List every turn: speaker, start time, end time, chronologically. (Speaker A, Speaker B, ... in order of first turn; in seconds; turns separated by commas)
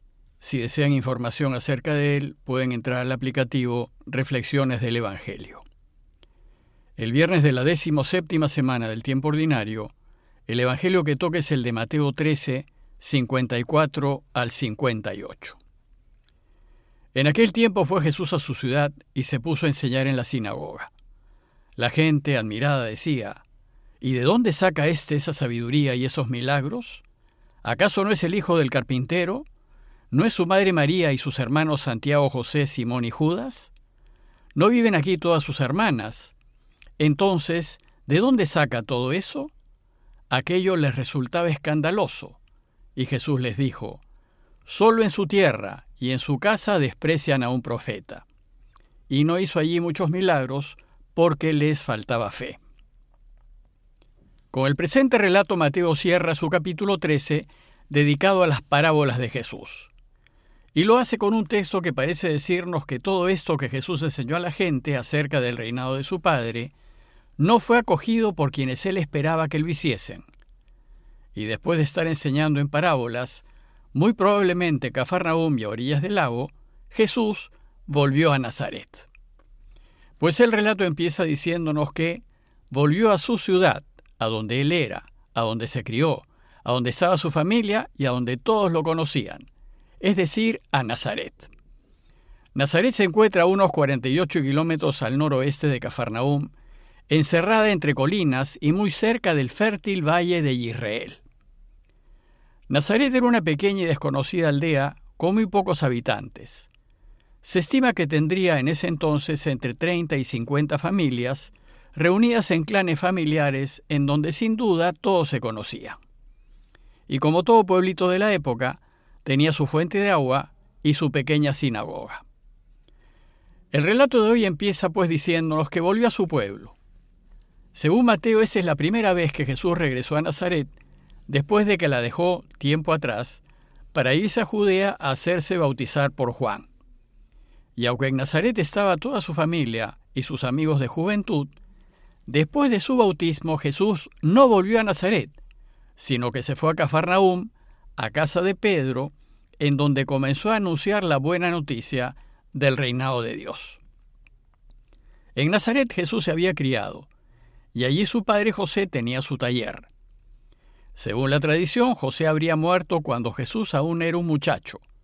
Speaker A: 0.4-5.7, Speaker A: 7.0-9.9, Speaker A: 10.5-15.6, Speaker A: 17.1-20.9, Speaker A: 21.8-23.4, Speaker A: 24.0-27.0, Speaker A: 27.6-29.5, Speaker A: 30.1-33.7, Speaker A: 34.5-36.3, Speaker A: 37.0-39.5, Speaker A: 40.3-42.4, Speaker A: 43.0-44.0, Speaker A: 44.7-48.2, Speaker A: 49.1-52.6, Speaker A: 54.5-59.9, Speaker A: 60.8-66.7, Speaker A: 67.4-70.2, Speaker A: 71.3-79.1, Speaker A: 80.2-89.5, Speaker A: 90.0-91.5, Speaker A: 92.5-96.5, Speaker A: 97.1-101.2, Speaker A: 102.7-106.7, Speaker A: 107.4-116.0, Speaker A: 117.1-122.2, Speaker A: 123.7-126.8, Speaker A: 127.7-130.7, Speaker A: 131.3-133.4, Speaker A: 133.9-136.7, Speaker A: 137.8-141.6, Speaker A: 142.3-145.4, Speaker A: 146.0-153.8, Speaker A: 155.3-157.1, Speaker A: 157.7-159.9, Speaker A: 160.9-164.8